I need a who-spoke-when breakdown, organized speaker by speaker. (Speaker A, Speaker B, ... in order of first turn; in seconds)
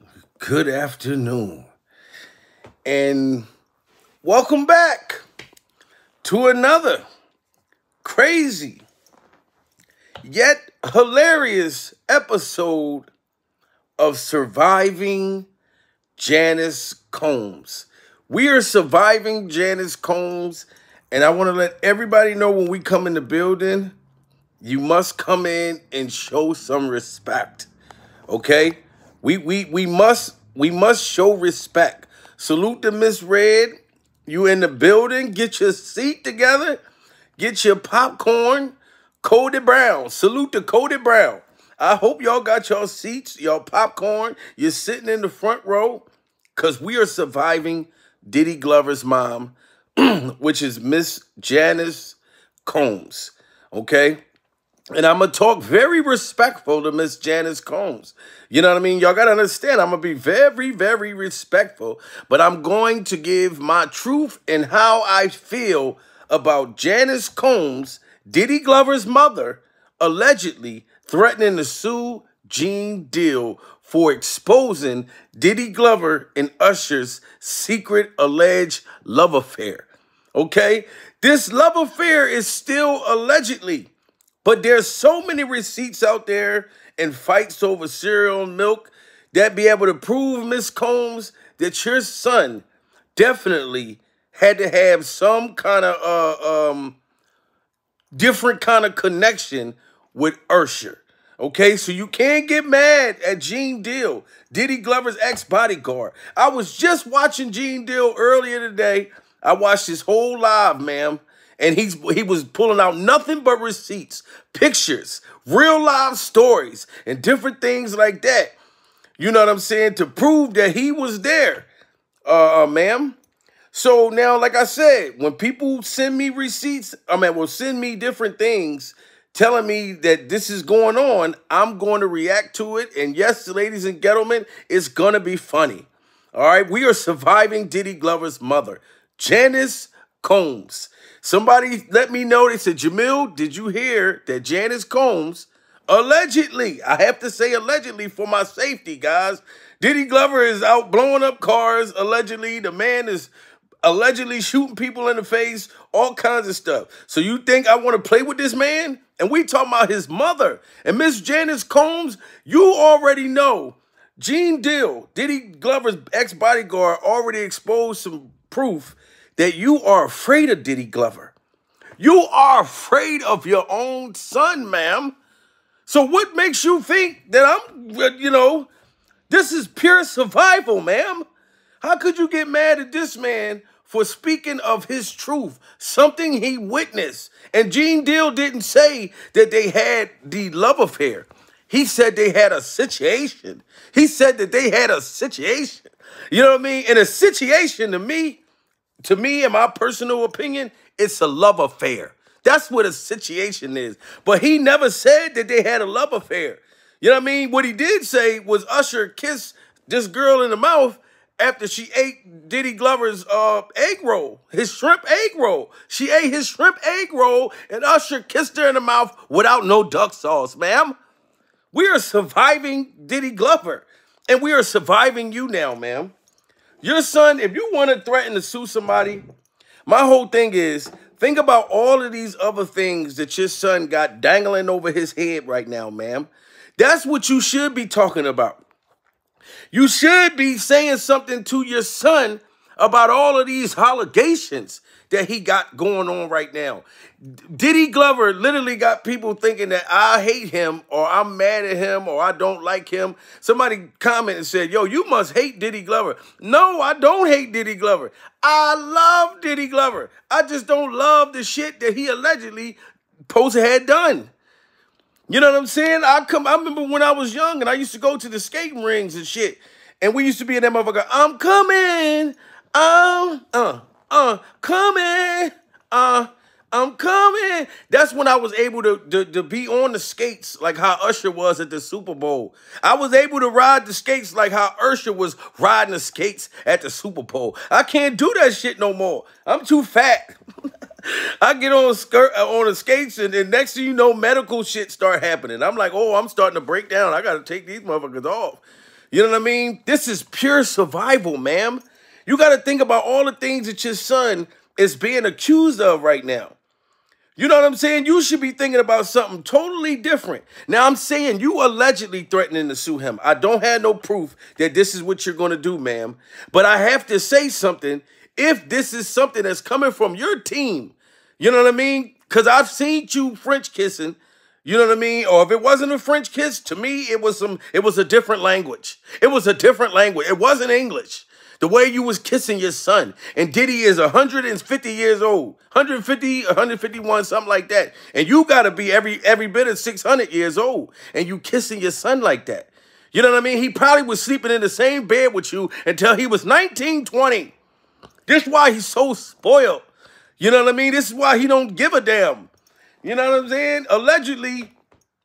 Speaker A: 0.4-1.7, 2.9-3.5, 4.2-5.2, 6.2-7.0, 8.0-8.8, 10.2-13.1, 14.0-15.5, 16.2-23.9, 24.6-27.7, 28.3-36.8, 37.4-54.2, 54.9-83.9, 84.4-92.6, 93.2-97.0, 98.1-118.5, 119.2-121.7, 122.3-123.2, 123.7-153.3, 153.8-171.3, 172.0-175.1, 175.9-178.7, 179.3-181.2, 181.8-198.4, 199.0-221.0, 221.7-226.1, 226.8-229.2, 229.9-238.6, 239.7-264.3, 265.3-290.4, 291.1-306.6, 307.4-347.5, 348.3-349.9, 350.4-352.5, 353.0-354.7